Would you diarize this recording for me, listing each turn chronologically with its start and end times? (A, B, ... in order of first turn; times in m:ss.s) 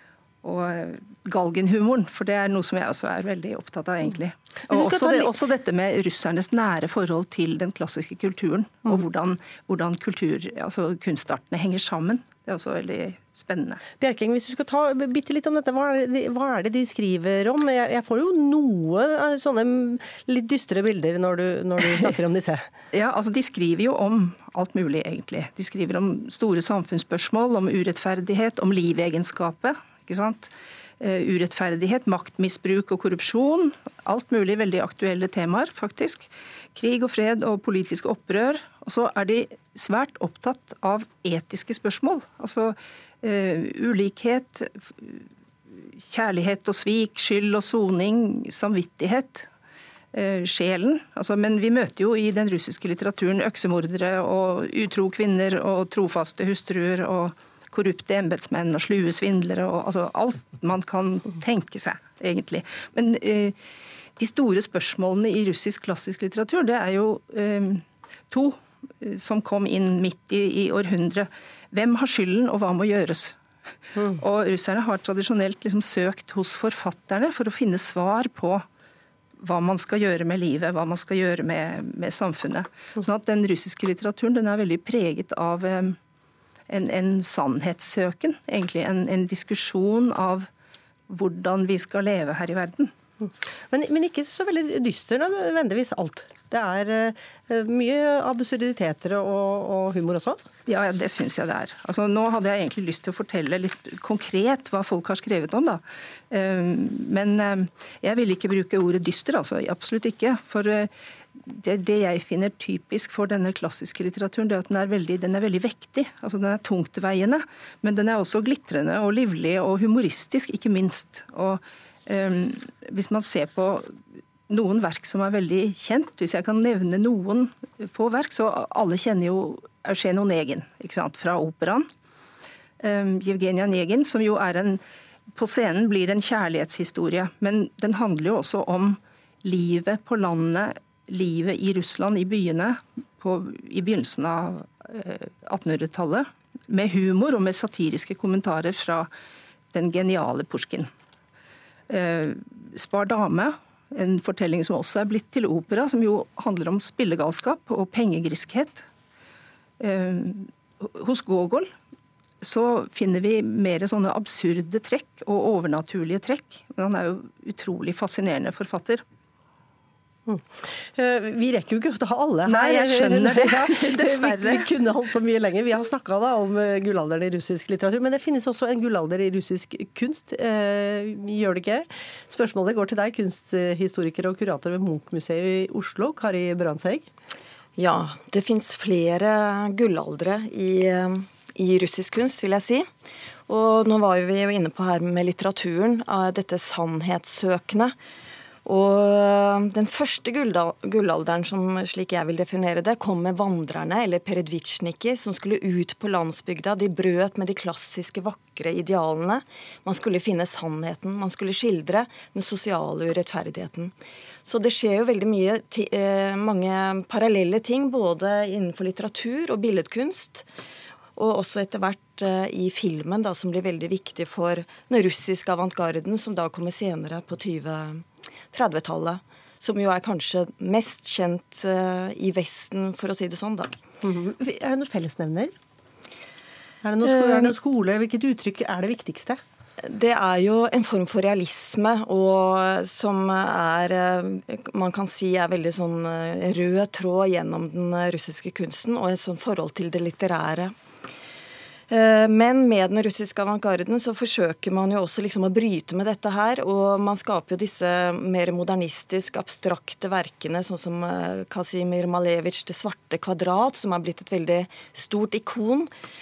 0:00.4-0:13.8 A
0:04.7-0:05.3 B
0:14.0-0:22.7 B
0:22.9-0:45.2 A
0:46.0-0:49.5 A
0:50.1-1:03.6 A
1:04.2-1:13.4 A
1:14.0-1:18.6 A
1:19.4-1:26.0 A
1:26.7-1:30.5 A
1:31.1-1:32.9 A
1:33.7-1:40.4 B
1:40.6-2:03.9 A
2:04.5-2:11.9 A
2:12.8-2:29.1 A
2:29.7-2:30.9 A
2:31.9-2:38.8 A
2:39.8-2:41.7 A
2:42.4-2:49.0 A
2:50.3-3:07.0 B
2:52.4-2:54.7 A
3:07.8-3:12.9 C
3:13.5-3:17.9 C
3:18.6-3:40.5 C
3:41.1-3:53.8 C
3:54.0-3:55.5 B
3:56.8-3:59.4 B
3:57.0-3:57.5 C
3:59.8-4:10.7 C
4:11.9-4:25.9 C